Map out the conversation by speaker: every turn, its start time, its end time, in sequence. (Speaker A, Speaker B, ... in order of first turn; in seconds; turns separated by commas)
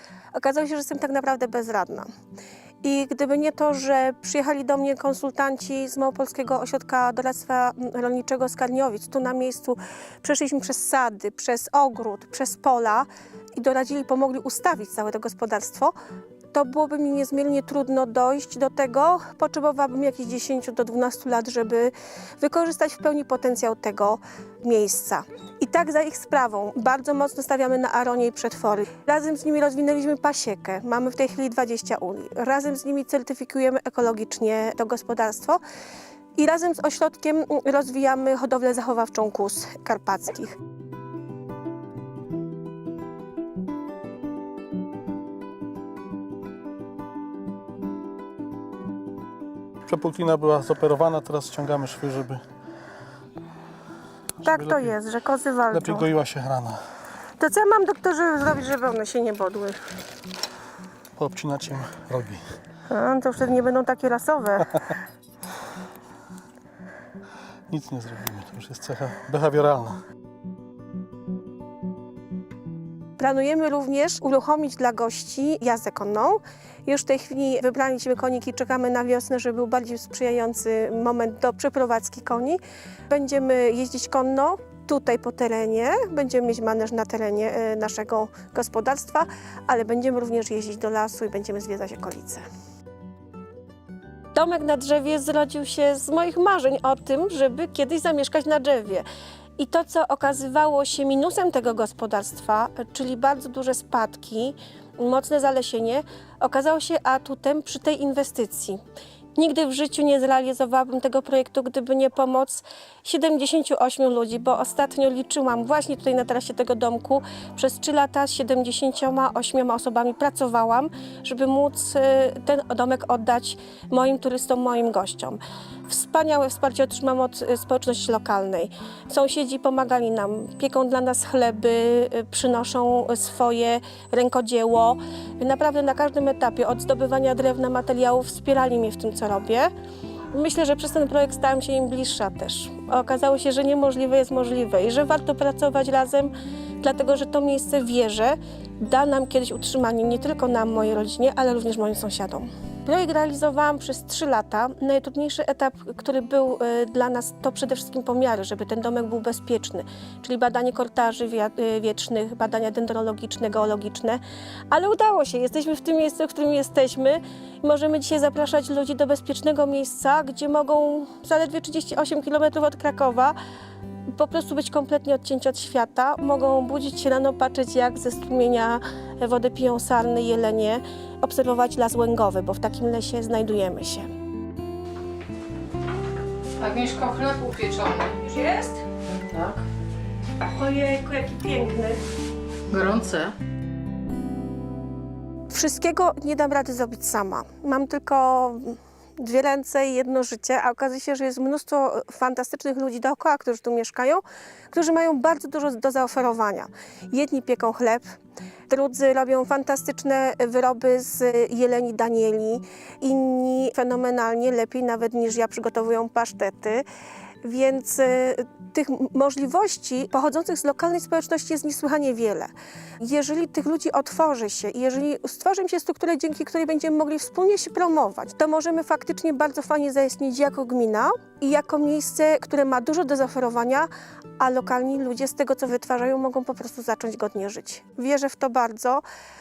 Speaker A: 0.3-2.1, Speaker A: 2.8-15.9, Speaker A: 16.5-35.6, Speaker A: 36.4-40.6, Speaker B: 49.9-52.4, Speaker A: 54.4-56.1, Speaker B: 54.4-54.9, Speaker B: 55.7-56.8, Speaker A: 57.4-59.8, Speaker B: 61.1-62.4, Speaker A: 62.9-64.8, Speaker B: 67.7-70.0, Speaker A: 73.2-92.4, Speaker A: 94.3-99.0, Speaker A: 99.6-108.8, Speaker A: 109.3-139.7, Speaker A: 140.3-173.3, Speaker A: 174.1-184.1, Speaker C: 186.6-188.2, Speaker A: 188.2-188.8, Speaker C: 189.2-189.6, Speaker A: 190.5-192.0, Speaker C: 192.7-193.3, Speaker A: 195.5-208.0, Speaker A: 208.7-216.8, Speaker A: 217.4-239.0